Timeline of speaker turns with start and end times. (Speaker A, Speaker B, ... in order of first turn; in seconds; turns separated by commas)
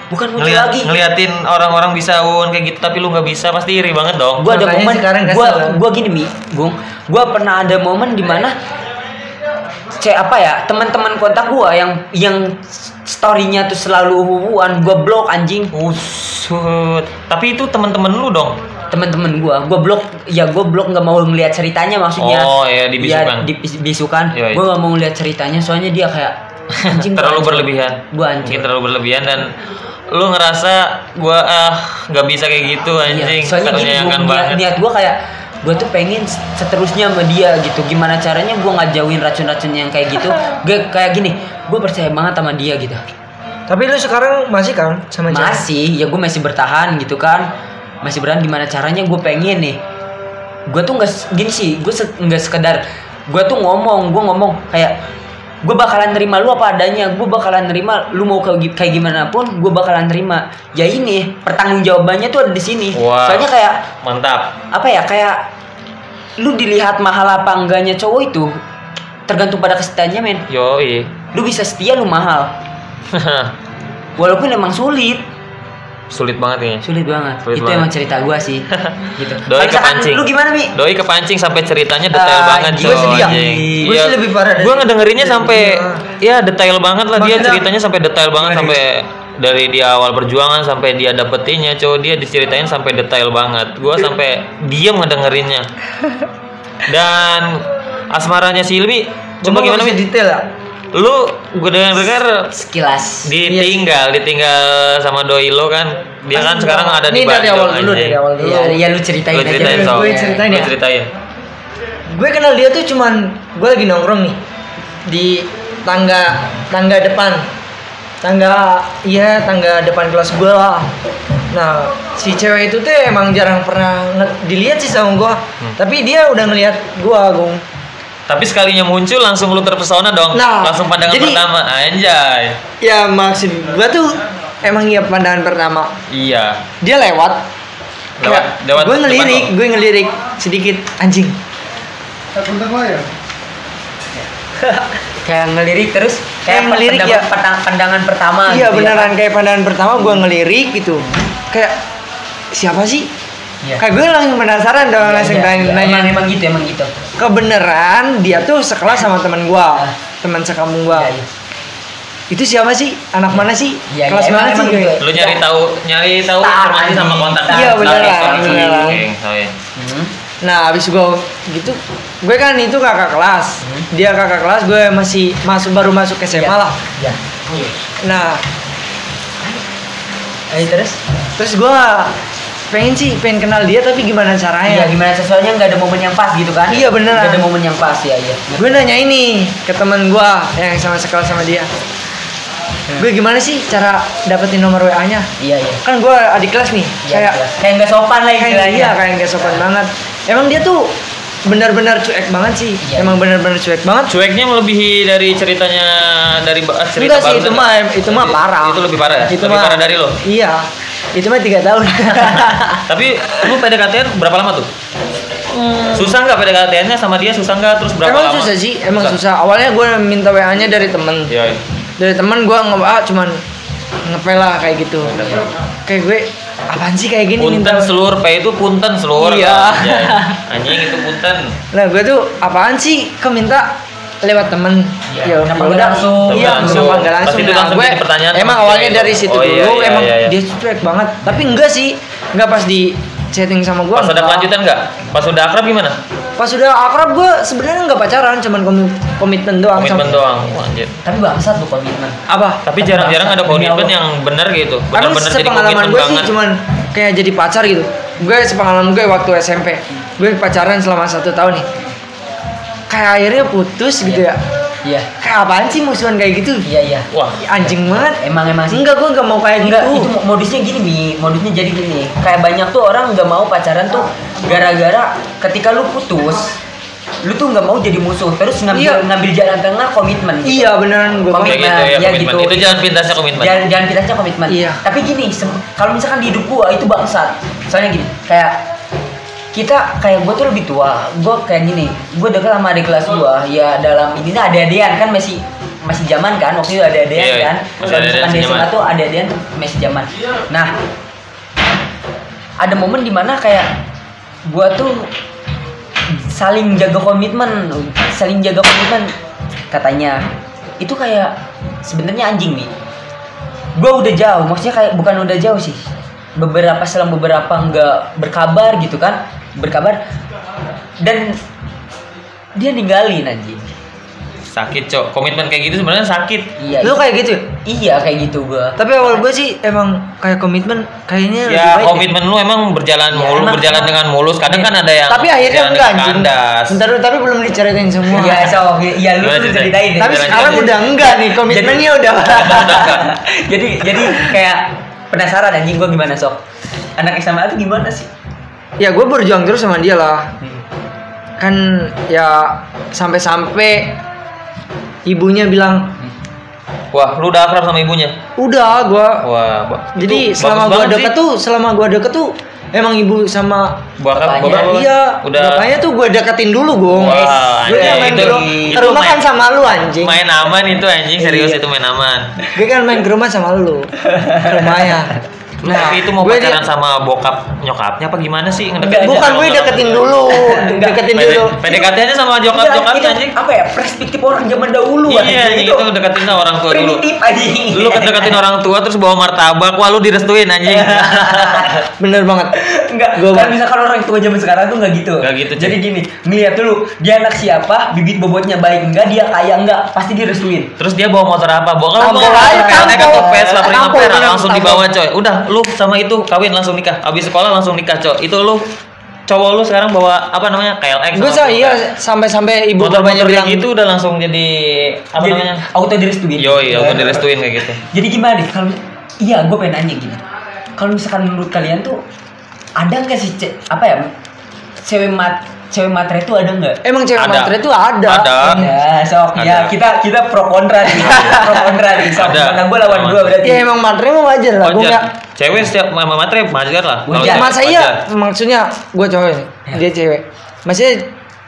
Speaker A: 0.1-0.9, Speaker B: 0.4-4.5, Speaker A: 4.4-8.6, Speaker C: 4.4-5.8, Speaker A: 9.9-15.7, Speaker B: 15.7-18.6, Speaker A: 18.9-28.7, Speaker B: 22.2-23.5, Speaker B: 24.3-24.6, Speaker B: 26.7-29.5, Speaker B: 30.1-34.6, Speaker A: 33.0-43.0, Speaker C: 43.7-45.6, Speaker A: 45.3-47.5, Speaker A: 48.0-49.8, Speaker A: 50.7-55.0, Speaker A: 55.6-63.9, Speaker B: 62.9-63.5, Speaker B: 64.0-64.5, Speaker A: 64.7-65.5, Speaker A: 66.4-68.6, Speaker A: 69.3-70.4, Speaker B: 70.5-71.1, Speaker A: 71.3-72.5, Speaker B: 73.1-73.5, Speaker A: 74.2-75.2, Speaker B: 76.1-76.8, Speaker A: 76.8-80.7, Speaker B: 77.5-77.9, Speaker B: 78.7-95.7, Speaker A: 82.1-83.9, Speaker C: 82.8-86.0, Speaker C: 87.2-87.7, Speaker A: 88.4-88.8, Speaker B: 96.8-100.0, Speaker C: 99.4-100.5, Speaker B: 100.9-102.5, Speaker A: 102.5-103.3, Speaker B: 103.2-108.2, Speaker C: 103.4-103.8, Speaker C: 106.3-108.8, Speaker A: 108.4-110.4, Speaker B: 109.3-111.1, Speaker C: 109.5-110.7, Speaker C: 112.1-114.4, Speaker C: 115.0-117.5, Speaker C: 118.2-120.9, Speaker C: 121.5-127.6, Speaker B: 128.3-132.6, Speaker C: 130.3-131.4, Speaker C: 132.8-135.9, Speaker B: 136.1-136.6, Speaker C: 136.8-137.5, Speaker B: 138.2-139.5, Speaker C: 138.2-141.4, Speaker A: 144.7-149.1, Speaker C: 146.5-147.3, Speaker C: 148.5-151.8, Speaker C: 152.5-153.1, Speaker C: 153.8-156.2, Speaker A: 155.0-156.9, Speaker C: 157.2-161.1, Speaker A: 160.9-161.3, Speaker C: 162.3-164.9, Speaker A: 163.9-165.4, Speaker B: 165.0-169.5, Speaker A: 166.4-169.0, Speaker C: 167.5-169.0, Speaker A: 169.7-170.1, Speaker C: 170.4-176.8, Speaker A: 173.6-173.9, Speaker A: 176.3-177.7, Speaker C: 178.0-178.4, Speaker A: 180.5-181.0, Speaker C: 181.3-182.1, Speaker C: 182.7-184.9, Speaker A: 184.7-188.9, Speaker C: 186.7-187.5, Speaker C: 188.6-191.7, Speaker C: 193.0-195.3, Speaker A: 195.4-195.8, Speaker C: 195.8-197.4, Speaker A: 197.0-199.6, Speaker C: 198.4-204.1, Speaker A: 202.8-203.2, Speaker B: 204.1-210.2, Speaker C: 207.0-212.8, Speaker B: 212.8-214.7, Speaker C: 215.5-216.1, Speaker B: 215.9-219.2, Speaker C: 218.0-221.3, Speaker B: 221.3-221.6, Speaker C: 222.0-223.4, Speaker C: 224.0-225.3, Speaker B: 225.0-225.5, Speaker A: 225.2-225.5, Speaker C: 225.8-227.9, Speaker B: 227.4-231.6, Speaker C: 229.2-230.4, Speaker C: 231.7-244.5, Speaker A: 235.1-237.0, Speaker B: 236.3-240.3, Speaker B: 243.9-246.0, Speaker C: 246.4-250.2, Speaker B: 249.7-250.9, Speaker A: 251.0-252.2, Speaker C: 252.3-252.8, Speaker B: 252.6-256.3, Speaker A: 252.8-253.9, Speaker C: 254.9-261.7, Speaker C: 262.9-264.4, Speaker A: 264.8-265.1, Speaker C: 265.2-266.7, Speaker A: 266.6-267.1, Speaker B: 267.1-267.7, Speaker C: 267.4-270.1, Speaker A: 268.0-268.8, Speaker A: 269.6-276.6, Speaker A: 277.2-280.7, Speaker C: 278.7-279.0, Speaker C: 280.4-281.7, Speaker A: 281.3-288.6, Speaker B: 281.4-283.6, Speaker C: 284.5-284.8, Speaker A: 289.5-300.7, Speaker B: 297.1-298.7, Speaker A: 302.6-303.7, Speaker A: 304.5-305.1, Speaker A: 306.1-309.1, Speaker A: 309.7-310.2, Speaker A: 310.8-312.7, Speaker A: 313.8-315.8, Speaker A: 316.4-320.0, Speaker A: 321.0-321.4, Speaker A: 322.5-323.7, Speaker B: 324.5-326.5, Speaker A: 326.6-327.0, Speaker C: 326.8-327.5, Speaker A: 327.6-329.2, Speaker C: 328.8-332.1, Speaker B: 331.4-336.8, Speaker A: 333.1-334.7, Speaker C: 335.1-338.6, Speaker A: 338.1-346.4, Speaker B: 339.2-340.9, Speaker C: 340.0-342.9, Speaker B: 342.2-343.1, Speaker A: 347.0-348.1, Speaker C: 348.8-350.3, Speaker C: 351.4-354.0, Speaker C: 355.1-355.9, Speaker B: 356.9-358.2, Speaker C: 358.4-359.3, Speaker B: 359.2-361.1, Speaker C: 359.9-363.8, Speaker B: 364.0-365.7, Speaker A: 364.1-364.8, Speaker C: 364.4-370.2, Speaker B: 366.9-369.3, Speaker A: 367.0-368.9, Speaker B: 369.9-372.3, Speaker A: 371.2-371.6, Speaker C: 372.5-376.6, Speaker A: 374.0-374.9, Speaker B: 375.6-380.3, Speaker A: 378.8-379.4, Speaker C: 378.9-381.7, Speaker A: 380.3-381.1, Speaker B: 381.1-383.3, Speaker A: 381.6-381.9, Speaker A: 382.5-385.9, Speaker B: 385.1-387.0, Speaker A: 386.4-388.4, Speaker B: 387.7-391.8, Speaker A: 390.6-391.9, Speaker C: 392.0-392.6, Speaker A: 392.6-400.7, Speaker C: 393.1-393.6, Speaker B: 395.2-395.8, Speaker B: 400.8-408.7, Speaker C: 402.0-404.9, Speaker A: 402.6-403.2, Speaker B: 409.3-411.8, Speaker C: 411.1-413.7, Speaker B: 412.8-415.6, Speaker A: 415.2-420.2, Speaker B: 416.4-417.8, Speaker A: 420.8-422.0, Speaker A: 422.8-424.1, Speaker A: 424.8-426.8, Speaker C: 426.8-428.7, Speaker B: 427.2-427.5, Speaker B: 428.1-428.7, Speaker A: 428.4-433.7, Speaker B: 429.4-429.7, Speaker C: 431.1-431.7, Speaker B: 432.0-433.4, Speaker C: 433.4-435.1, Speaker B: 434.6-438.0, Speaker A: 437.1-437.5, Speaker C: 437.2-441.1